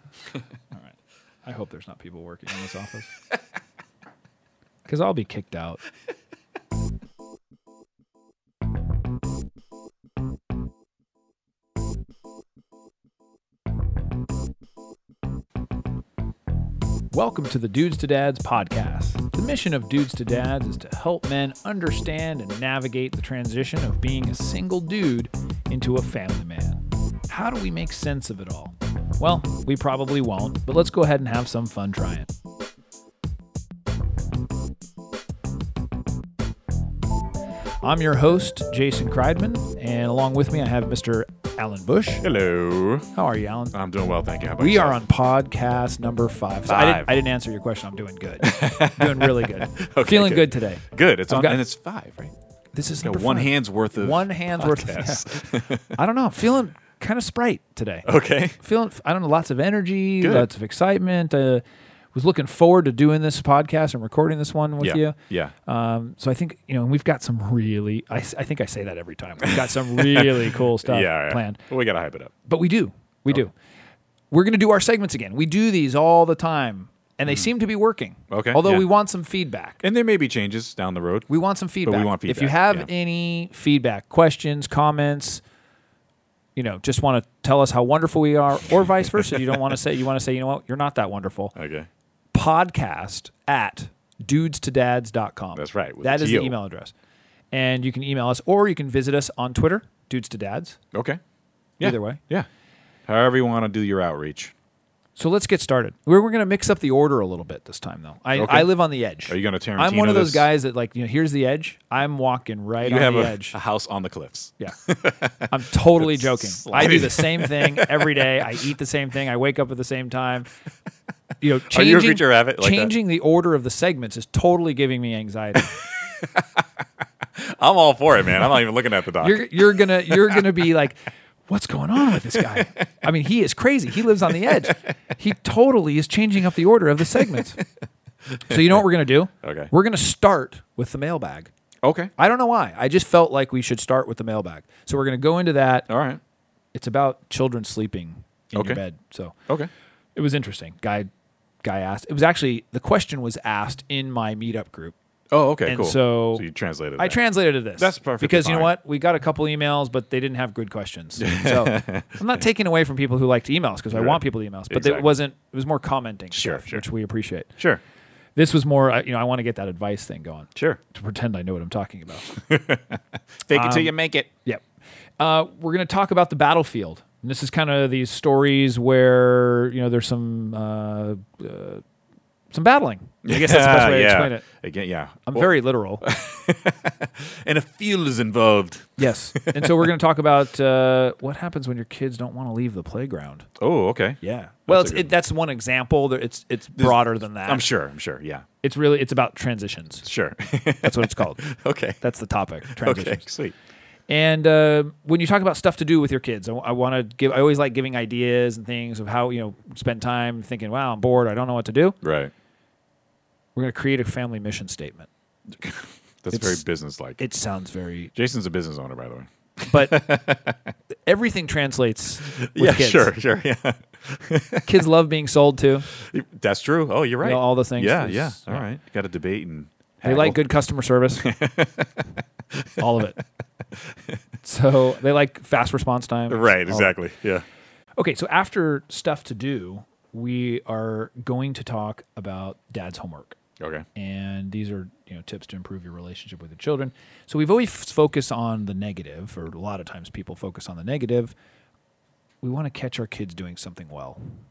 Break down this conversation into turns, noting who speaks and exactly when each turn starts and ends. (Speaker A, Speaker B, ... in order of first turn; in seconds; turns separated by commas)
Speaker A: 1.4-3.1, Speaker A: 4.9-5.8, Speaker A: 17.1-32.3, Speaker A: 37.8-42.2, Speaker B: 42.2-43.1, Speaker A: 43.1-43.8, Speaker B: 43.7-45.0, Speaker A: 44.6-51.6, Speaker B: 46.7-47.1, Speaker B: 48.4-52.3, Speaker A: 52.7-58.1, Speaker B: 53.0-56.0, Speaker B: 58.1-58.6, Speaker A: 58.6-61.6, Speaker B: 60.2-60.5, Speaker A: 62.1-71.6, Speaker B: 64.8-65.5, Speaker B: 69.4-72.3, Speaker A: 72.5-73.5, Speaker A: 74.3-79.8, Speaker B: 78.3-78.9, Speaker B: 79.8-81.3, Speaker A: 81.3-85.4, Speaker B: 81.8-82.9, Speaker A: 86.6-91.5, Speaker B: 91.5-91.9, Speaker A: 92.3-96.9, Speaker B: 95.6-96.6, Speaker A: 97.5-100.8, Speaker B: 100.9-101.2, Speaker B: 101.8-102.5, Speaker A: 101.8-102.2, Speaker B: 103.1-104.5, Speaker A: 105.2-113.6, Speaker B: 108.3-108.7, Speaker B: 109.3-110.5, Speaker B: 112.8-118.5, Speaker A: 115.5-120.5, Speaker A: 121.4-125.7, Speaker B: 121.7-122.9, Speaker B: 125.6-126.7, Speaker B: 127.3-130.4, Speaker A: 129.2-137.6, Speaker B: 132.2-132.7, Speaker B: 134.5-134.8, Speaker B: 137.2-137.6, Speaker B: 138.3-138.9, Speaker A: 138.5-141.5, Speaker B: 139.4-139.7, Speaker B: 141.8-142.1, Speaker A: 142.2-145.9, Speaker B: 145.9-146.2, Speaker A: 146.7-149.3, Speaker B: 148.6-148.8, Speaker A: 150.2-151.1, Speaker A: 151.6-154.9, Speaker B: 155.3-157.2, Speaker A: 155.7-156.5, Speaker A: 157.0-167.5, Speaker B: 157.8-158.7, Speaker B: 161.2-162.2, Speaker B: 163.9-165.1, Speaker B: 166.3-166.8, Speaker A: 168.4-172.3, Speaker B: 172.3-174.3, Speaker A: 173.5-173.9, Speaker A: 175.2-181.8, Speaker A: 182.5-184.5, Speaker B: 183.2-185.5, Speaker A: 185.3-186.0, Speaker B: 186.0-189.9, Speaker A: 189.0-193.5, Speaker B: 193.6-195.1, Speaker A: 194.2-197.7, Speaker B: 196.8-198.4, Speaker A: 198.6-200.1, Speaker B: 200.1-202.0, Speaker A: 200.8-201.4, Speaker A: 202.0-203.3, Speaker B: 202.7-203.5, Speaker A: 204.1-212.0, Speaker B: 212.0-212.3, Speaker A: 213.6-215.1, Speaker B: 215.6-217.2, Speaker A: 216.3-216.6, Speaker A: 217.2-218.1, Speaker B: 218.2-220.6, Speaker A: 219.7-220.2, Speaker A: 221.1-223.2, Speaker B: 222.2-224.8, Speaker A: 224.6-225.9, Speaker B: 225.9-230.4, Speaker A: 227.2-228.7, Speaker A: 230.0-231.3, Speaker B: 231.2-232.9, Speaker A: 232.8-233.2, Speaker B: 233.7-234.2, Speaker A: 234.4-236.9, Speaker B: 236.3-237.4, Speaker A: 238.0-243.4, Speaker B: 243.6-243.9, Speaker A: 243.9-251.3, Speaker A: 252.4-254.2